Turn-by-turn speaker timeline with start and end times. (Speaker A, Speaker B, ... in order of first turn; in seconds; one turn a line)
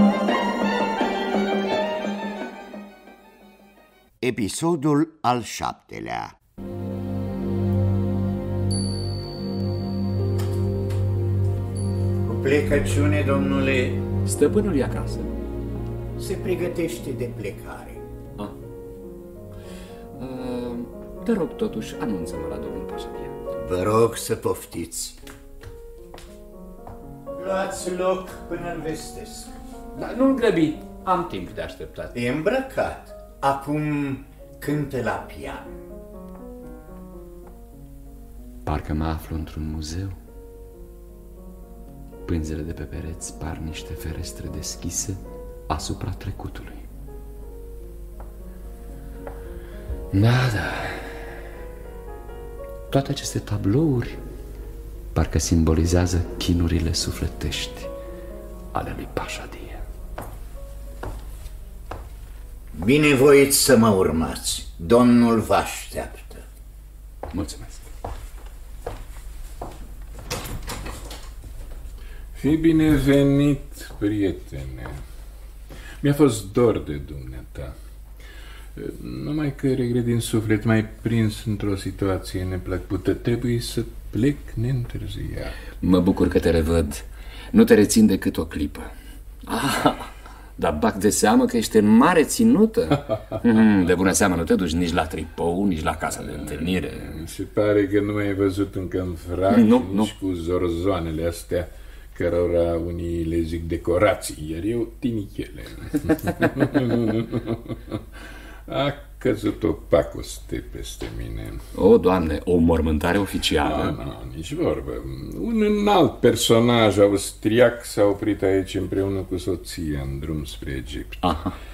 Speaker A: 4.2-6.4
Speaker B: 12.2-14.0
Speaker C: 14.2-15.3
Speaker B: 16.2-18.0
Speaker C: 20.1-23.5
Speaker B: 23.6-25.2
Speaker B: 27.3-29.6
Speaker C: 29.9-32.2
Speaker B: 32.1-35.7
Speaker C: 38.6-40.2
Speaker C: 42.2-46.9
Speaker C: 50.1-51.4
Speaker C: 52.9-54.2
Speaker C: 55.1-57.9
Speaker C: 58.7-59.8
Speaker B: 62.7-66.4
Speaker C: 67.3-67.9
Speaker D: 72.3-75.0
Speaker D: 76.0-77.8
Speaker D: 78.8-85.6
Speaker C: 85.6-88.9
Speaker C: 89.4-97.2
Speaker D: 96.5-108.0
Speaker C: 99.5-100.1
Speaker D: 108.7-111.6
Speaker C: 111.7-114.0
Speaker D: 113.6-121.3
Speaker C: 121.2-121.6